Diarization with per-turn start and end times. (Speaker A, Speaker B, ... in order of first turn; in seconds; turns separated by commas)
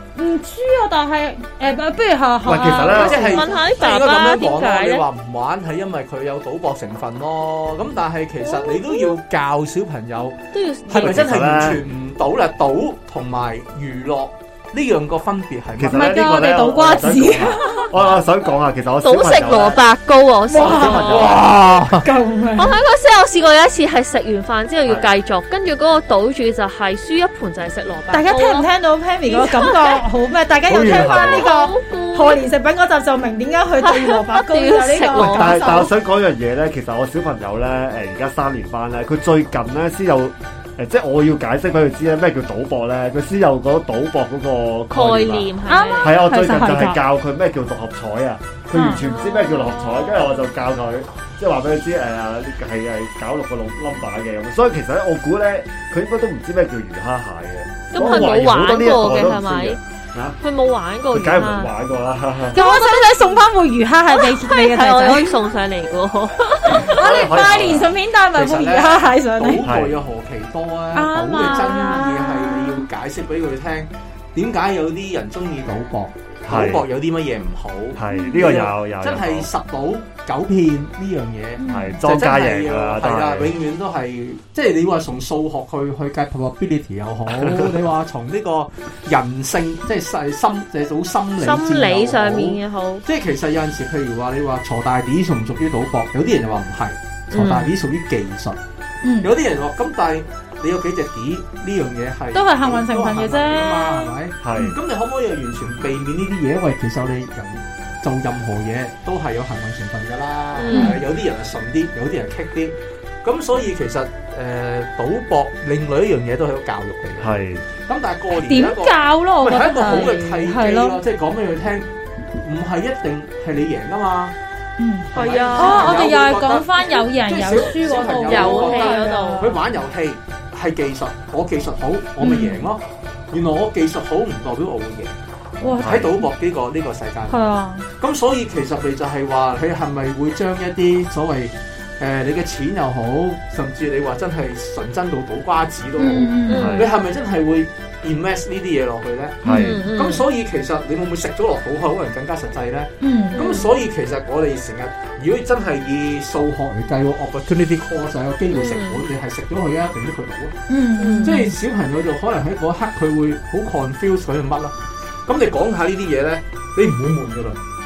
Speaker A: 0.1-3.5, Speaker B: 2.4-3.4, Speaker C: 2.9-5.0, Speaker D: 2.9-16.3, Speaker C: 8.4-9.1, Speaker C: 10.5-11.3, Speaker B: 10.9-11.8, Speaker B: 15.8-19.8, Speaker A: 15.9-17.9, Speaker C: 19.0-21.4, Speaker A: 20.5-21.2, Speaker B: 20.6-21.4, Speaker D: 20.6-22.1, Speaker A: 22.0-22.8, Speaker C: 22.6-28.7, Speaker A: 28.1-35.9, Speaker C: 29.3-30.0, Speaker B: 30.7-31.4, Speaker C: 30.8-32.4, Speaker C: 33.8-35.9, Speaker B: 35.1-45.5, Speaker C: 44.9-46.2, Speaker A: 45.7-47.0, Speaker B: 46.0-60.4, Speaker A: 48.7-49.0, Speaker C: 48.9-50.4, Speaker C: 57.9-59.8, Speaker C: 60.4-61.7, Speaker B: 61.1-62.6, Speaker C: 62.5-63.4, Speaker A: 62.5-65.3, Speaker C: 64.1-67.1, Speaker A: 66.7-69.6, Speaker B: 66.8-67.9, Speaker D: 68.3-98.6, Speaker B: 69.6-70.0, Speaker A: 70.9-72.8, Speaker B: 76.5-76.8, Speaker B: 77.9-79.5, Speaker A: 78.1-78.4, Speaker A: 81.6-82.0, Speaker B: 81.7-83.5, Speaker B: 87.3-87.7, Speaker C: 91.4-93.0, Speaker C: 97.3-97.7, Speaker A: 99.0-99.3, Speaker D: 99.2-124.3, Speaker A: 102.3-104.7, Speaker B: 104.4-104.8, Speaker C: 110.5-111.0, Speaker A: 110.7-111.0, Speaker B: 117.2-117.6, Speaker A: 118.3-121.0, Speaker C: 119.8-120.3, Speaker A: 124.8-129.6, Speaker D: 125.1-135.1, Speaker C: 125.1-126.1, Speaker C: 128.2-129.5, Speaker A: 132.2-132.7, Speaker A: 135.6-136.2, Speaker B: 135.8-136.1, Speaker D: 135.8-160.6, Speaker A: 137.3-137.8, Speaker A: 146.0-146.8, Speaker C: 146.5-146.9, Speaker B: 146.5-146.9, Speaker B: 149.4-149.8, Speaker A: 149.4-149.8, Speaker C: 149.4-150.2, Speaker A: 153.0-153.4, Speaker C: 153.3-153.7, Speaker C: 158.5-159.0, Speaker A: 160.7-161.6, Speaker C: 161.0-161.4, Speaker D: 161.2-164.7, Speaker D: 165.2-167.6